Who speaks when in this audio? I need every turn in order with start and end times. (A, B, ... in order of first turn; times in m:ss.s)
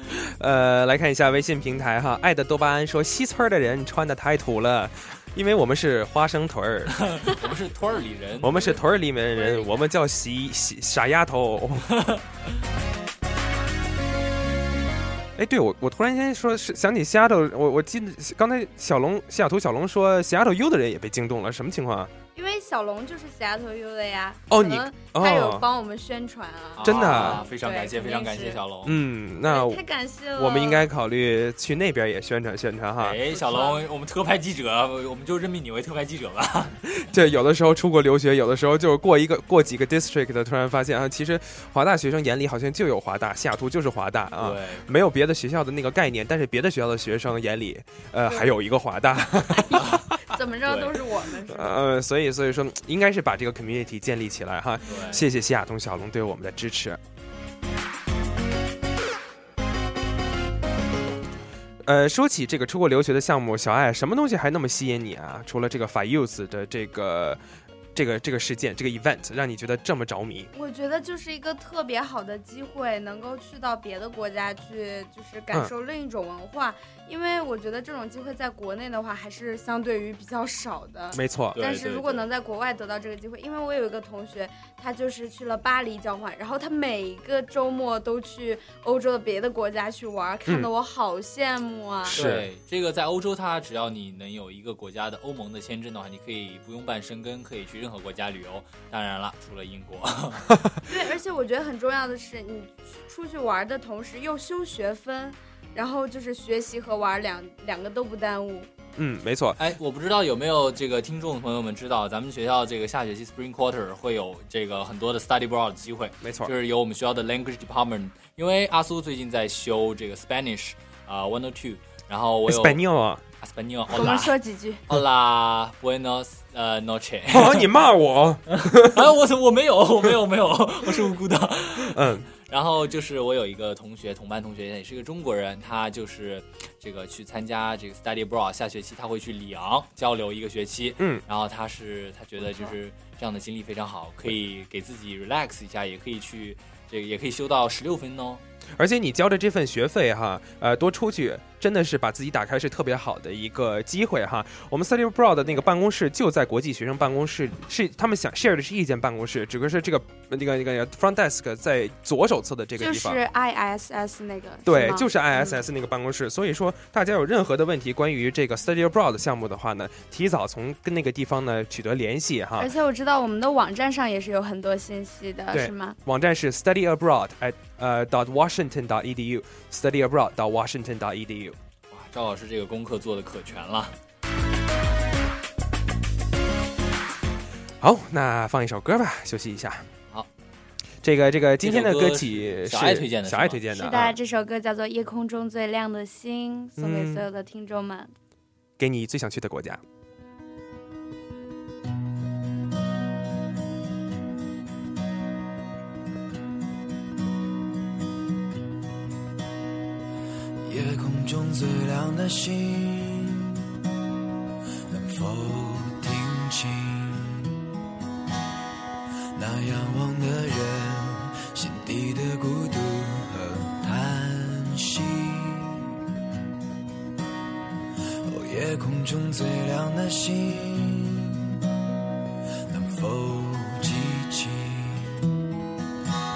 0:00.1-0:07.0 A
0:07.0-0:08.8 B
0:08.4-0:11.9 A
0:09.3-0:09.8 C
0:15.4-0:22.1 A
0:22.4-0:28.6 C
0:24.5-0:25.6 A
0:26.8-0:29.0 B
0:26.8-0:27.4 A
0:28.8-0:29.8 A
0:29.4-0:30.8 C
0:30.4-0:33.2 A
0:33.0-0:36.8 B
0:33.3-0:33.8 C
0:37.1-0:50.0 A
0:44.4-0:44.9 B
0:49.6-0:51.8 C
0:50.6-0:51.0 B
0:51.5-0:57.0 A
0:54.9-0:55.3 B
1:01.8-1:07.4 A
1:08.0-1:10.5 A
1:10.5-1:32.2 C
1:21.1-1:21.6 A
1:21.6-1:22.3 B
1:32.1-1:32.5 A
1:32.1-1:40.5 B
1:40.9-1:48.7 C
1:49.0-1:49.6 A
1:49.6-2:02.8 B
1:56.2-1:56.5 A
2:02.5-2:03.2 A
2:03.4-2:04.4 B
2:03.9-2:04.8 C
2:04.9-2:07.7 B
2:07.3-2:09.0 A
2:08.5-2:28.4 B
2:11.9-2:12.3 A
2:28.8-2:43.2 A
2:42.8-2:45.6 C
2:44.6-2:52.7 A
2:52.6-2:56.0 C
2:55.5-3:01.6 A
3:01.9-3:04.0 B
3:07.8-3:09.9 A
3:11.0-3:14.2 A
3:11.6-3:13.6 B
3:13.7-3:18.1 C
3:16.8-3:17.2 A
3:18.8-3:19.8 A
3:30.6-3:33.6 D
3:34.9-3:37.5 D
3:39.4-3:45.9 D
3:48.3-3:51.5 D
3:52.7-3:55.3 D